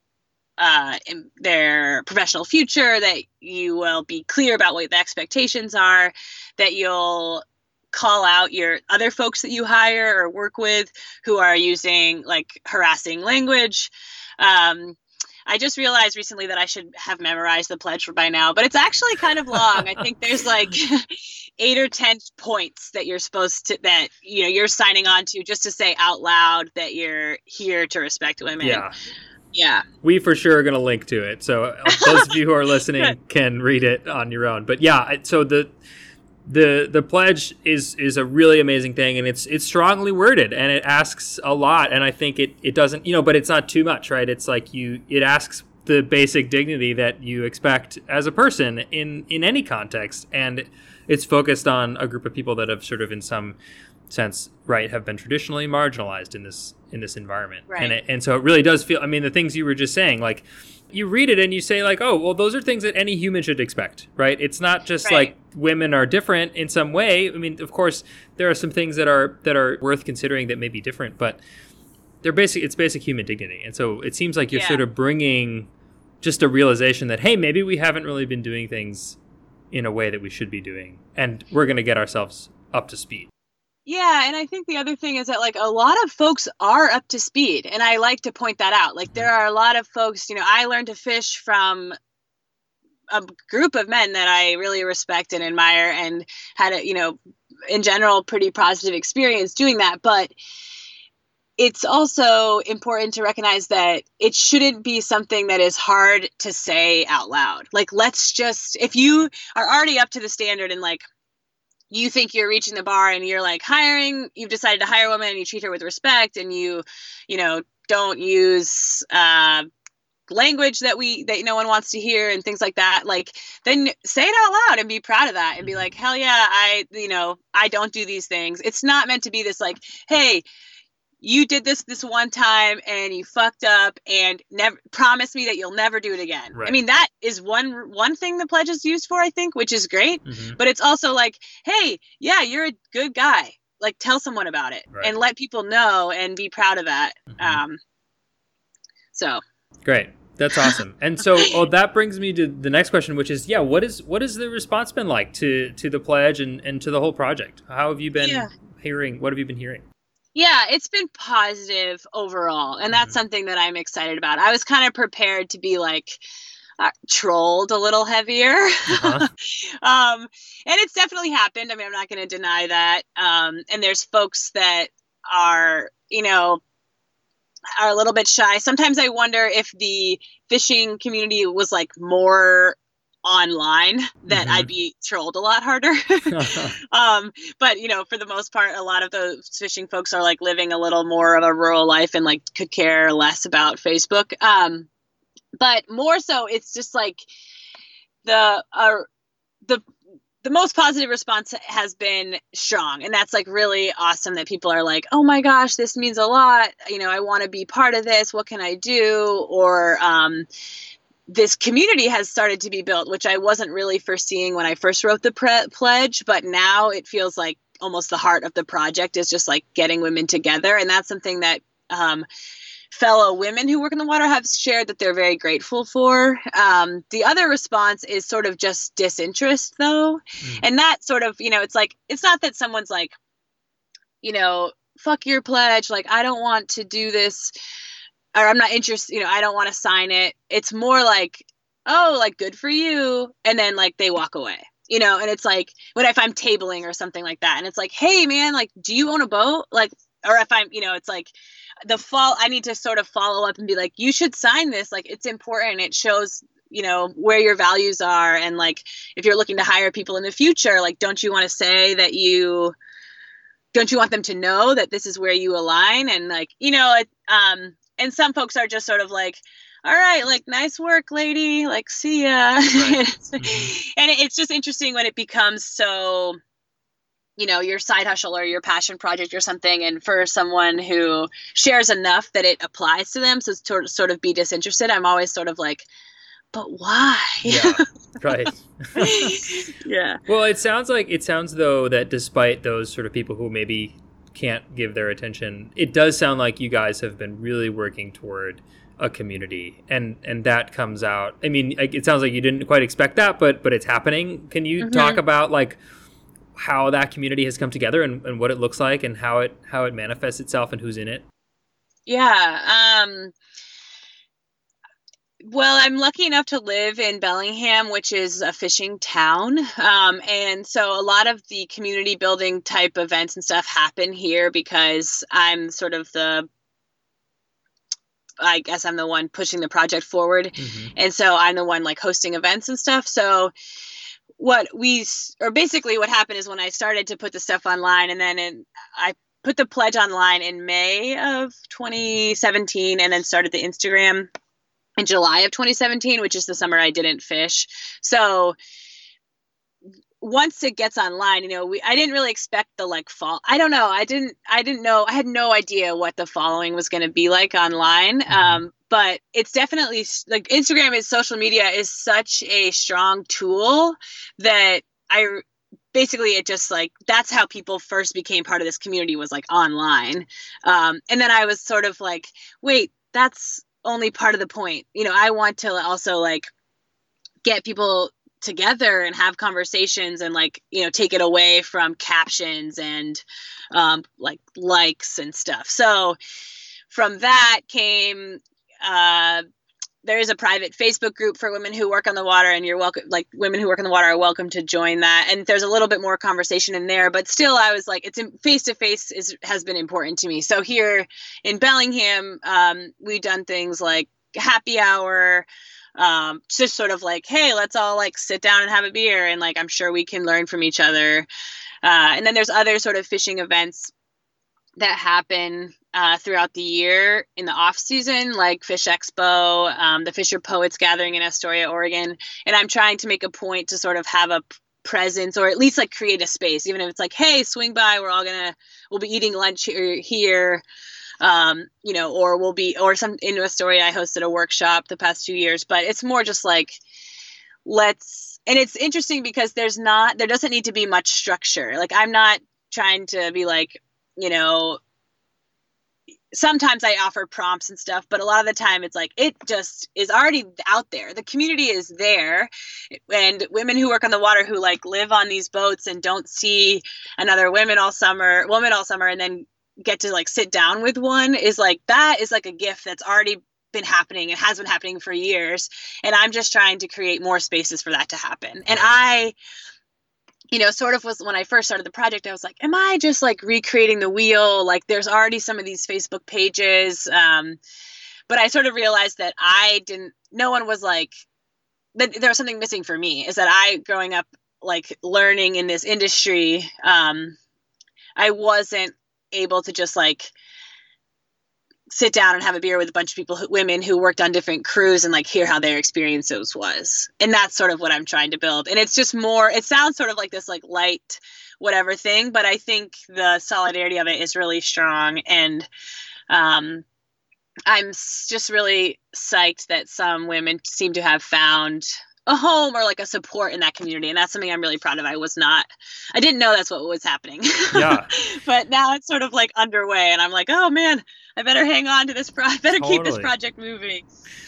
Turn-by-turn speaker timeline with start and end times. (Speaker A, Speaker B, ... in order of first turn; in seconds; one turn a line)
Speaker A: 0.6-28.9
Speaker B: 28.6-28.9
Speaker A: 29.5-29.9
Speaker B: 30.0-35.7
Speaker A: 31.9-32.2
Speaker B: 36.5-53.6
Speaker B: 54.1-71.4
Speaker A: 57.7-58.0
Speaker A: 65.0-65.3
Speaker B: 72.2-75.7
Speaker A: 74.5-74.8
Speaker B: 76.2-79.2
Speaker B: 79.7-83.3
Speaker A: 83.9-92.0
Speaker A: 93.1-97.2
Speaker A: 97.7-100.3
Speaker A: 101.6-111.0
Speaker A: 111.9-119.7
Speaker A: 120.3-130.4
Speaker A: 131.2-147.8
Speaker B: 140.3-140.6
Speaker B: 147.3-147.6
Speaker A: 149.1-149.4
Speaker B: 149.8-159.8
Speaker A: 158.2-158.5
Speaker A: 160.3-166.2
Speaker B: 162.9-163.2
Speaker A: 166.8-176.6
Speaker B: 168.9-169.3
Speaker A: 177.8-186.3
Speaker B: 184.3-184.7
Speaker B: 186.3-186.8
Speaker A: 186.9-194.9
Speaker A: 195.6-197.2
Speaker A: 198.2-199.1
Speaker A: 200.4-210.5
Speaker A: 211.3-222.2
Speaker A: 222.9-233.2
Speaker A: 234.2-237.5
Speaker A: 238.3-251.3
Speaker A: 251.9-262.8
Speaker A: 263.7-276.4
Speaker B: 272.8-273.7
Speaker A: 277.4-285.9
Speaker A: 286.5-287.8
Speaker B: 287.4-289.4
Speaker A: 289.0-290.2
Speaker B: 290.3-305.8
Speaker A: 304.8-305.2
Speaker B: 306.6-311.2
Speaker A: 312.1-313.3
Speaker A: 315.4-326.5
Speaker A: 328.4-333.5
Speaker B: 330.6-330.9
Speaker A: 334.4-344.3
Speaker A: 345.0-348.6
Speaker A: 350.2-376.5
Speaker B: 358.3-358.6
Speaker A: 377.4-386.2
Speaker A: 386.9-389.4
Speaker A: 390.0-411.3
Speaker A: 411.8-413.9
Speaker A: 414.8-430.6
Speaker A: 431.2-436.8
Speaker A: 437.6-444.8
Speaker A: 446.3-469.4
Speaker A: 470.5-477.6
Speaker A: 478.3-481.2
Speaker A: 481.9-487.4
Speaker A: 488.2-490.3
Speaker A: 491.9-505.7
Speaker A: 506.3-506.8
Speaker A: 507.7-524.0
Speaker B: 517.7-518.1
Speaker B: 522.8-523.3